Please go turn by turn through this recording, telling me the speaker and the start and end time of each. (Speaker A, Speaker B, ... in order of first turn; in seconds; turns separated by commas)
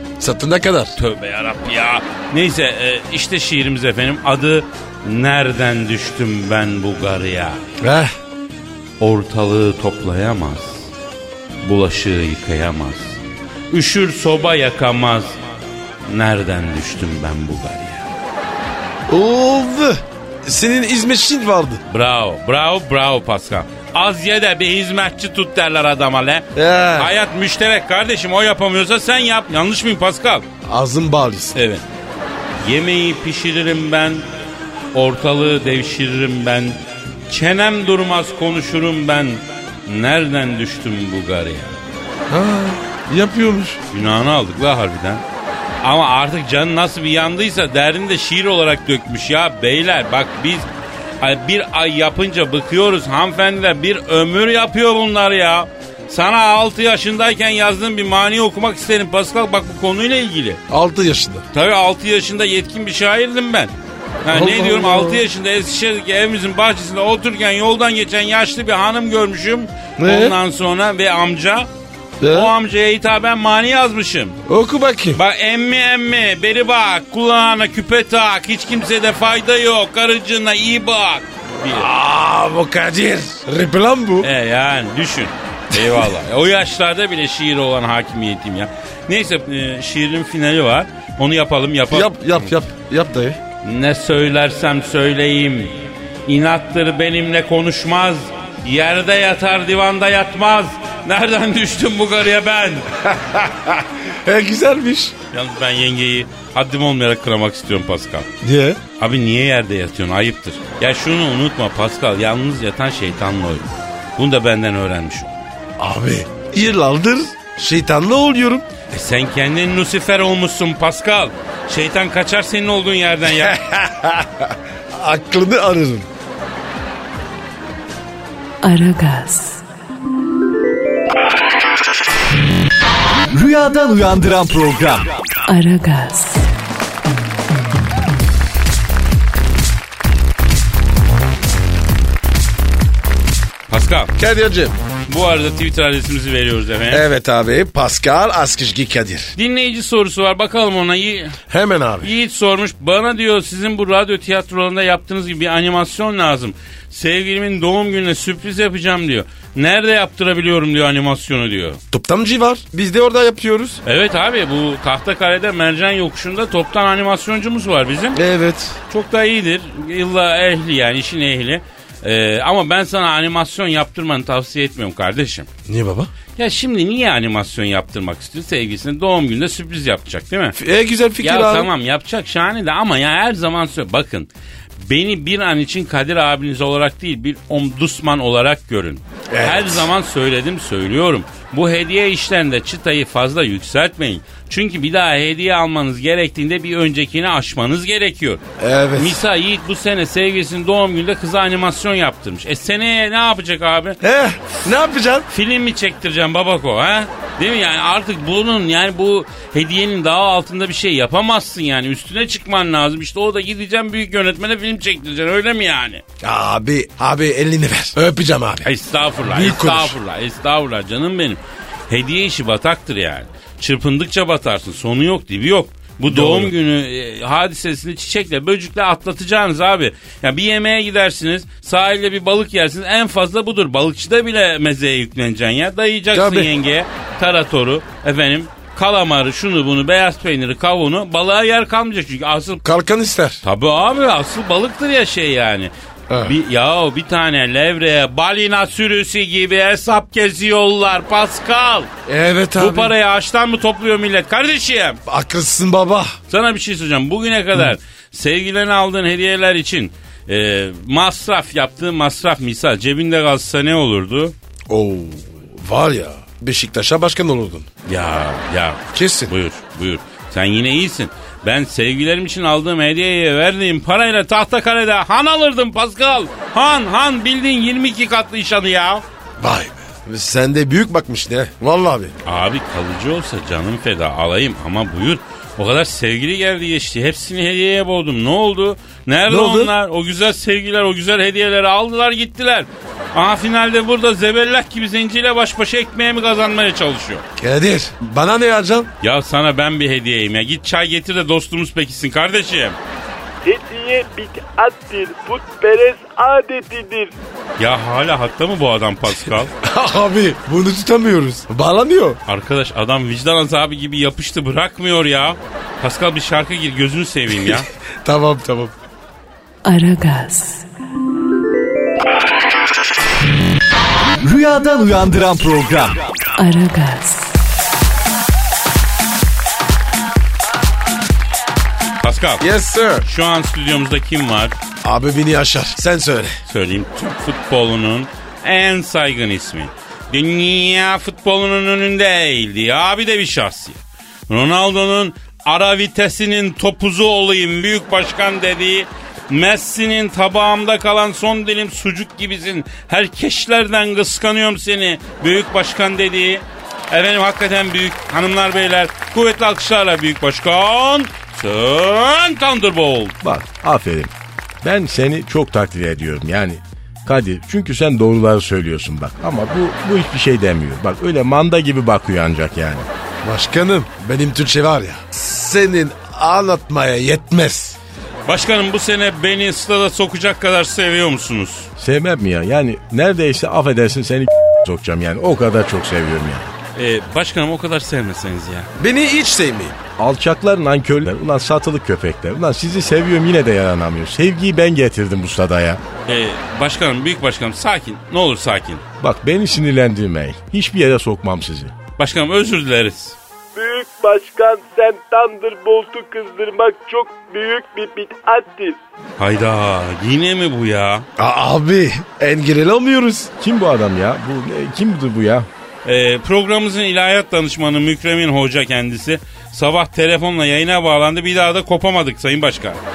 Speaker A: 0.2-1.0, Speaker B: 1.0-7.6, Speaker A: 7.8-8.1, Speaker B: 9.0-10.9, Speaker B: 11.6-13.2, Speaker B: 13.7-15.4, Speaker B: 16.1-18.1, Speaker A: 19.1-21.8, Speaker B: 21.9-30.5, Speaker A: 26.6-27.1, Speaker A: 30.6-31.6, Speaker B: 31.6-31.8, Speaker B: 32.6-34.2, Speaker B: 34.9-36.8, Speaker B: 37.3-41.8, Speaker A: 42.3-43.8, Speaker B: 43.9-45.2, Speaker B: 45.8-50.7, Speaker B: 51.2-60.6, Speaker A: 60.7-61.5, Speaker B: 61.5-63.7, Speaker B: 64.2-71.7, Speaker A: 64.3-65.2, Speaker A: 70.0-70.4, Speaker A: 72.2-72.5, Speaker B: 72.2-74.4, Speaker A: 74.5-75.2, Speaker B: 75.1-81.9, Speaker A: 81.7-84.3, Speaker B: 84.2-92.5, Speaker A: 91.9-93.4, Speaker B: 93.6-102.9, Speaker A: 103.1-105.1, Speaker B: 105.3-108.3, Speaker A: 108.4-108.8, Speaker B: 109.0-115.4, Speaker A: 115.8-118.7, Speaker B: 118.9-123.6, Speaker A: 123.4-126.1, Speaker C: 128.6-129.6, Speaker D: 133.3-135.1, Speaker C: 135.5-136.5, Speaker B: 143.7-144.1, Speaker A: 144.2-144.8, Speaker B: 145.1-147.1, Speaker A: 146.9-149.3, Speaker B: 149.4-151.4, Speaker A: 151.5-152.1, Speaker B: 152.0-161.8, Speaker A: 161.9-163.8, Speaker B: 163.8-168.2, Speaker A: 168.1-168.8, Speaker B: 168.9-175.5, Speaker A: 175.7-176.1, Speaker B: 176.4-180.6, Speaker A: 180.6-181.7, Speaker B: 181.2-198.4, Speaker A: 189.3-189.9, Speaker A: 198.6-199.2, Speaker B: 199.0-204.0, Speaker A: 204.0-205.3, Speaker B: 205.3-216.0, Speaker A: 216.2-218.7, Speaker B: 218.6-242.6, Speaker A: 219.3-220.0, Speaker A: 226.1-226.5, Speaker A: 236.1-236.5, Speaker A: 242.6-243.4, Speaker B: 243.4-245.7, Speaker A: 246.1-246.4, Speaker B: 246.2-251.9, Speaker A: 252.1-252.9, Speaker B: 252.6-255.0, Speaker A: 255.1-256.2, Speaker B: 256.3-264.3, Speaker A: 264.7-267.7, Speaker B: 267.9-279.0, Speaker A: 268.9-269.3, Speaker A: 279.4-282.2, Speaker B: 282.2-297.2, Speaker A: 289.3-289.7, Speaker A: 297.4-298.9, Speaker B: 299.0-302.8, Speaker E: 303.4-307.1, Speaker B: 307.6-309.5, Speaker A: 309.6-312.2, Speaker B: 312.3-317.7, Speaker A: 318.0-318.7, Speaker C: 319.6-320.6, Speaker D: 324.2-326.1, Speaker C: 326.4-327.4, Speaker B: 332.0-332.4, Speaker A: 332.4-333.1, Speaker B: 333.1-334.6, Speaker A: 334.8-336.4, Speaker B: 336.5-363.2, Speaker F: 363.2-372.9, Speaker A: 373.2-377.8, Speaker B: 378.3-381.7, Speaker F: 381.8-386.5, Speaker B: 386.8-388.7, Speaker A: 388.8-389.8, Speaker F: 390.0-395.8, Speaker B: 396.1-398.8, Speaker F: 399.0-401.7, Speaker B: 402.0-403.2, Speaker E: 403.6-408.8, Speaker B: 409.2-411.1, Speaker A: 411.2-413.3, Speaker F: 413.4-415.5, Speaker B: 415.9-422.8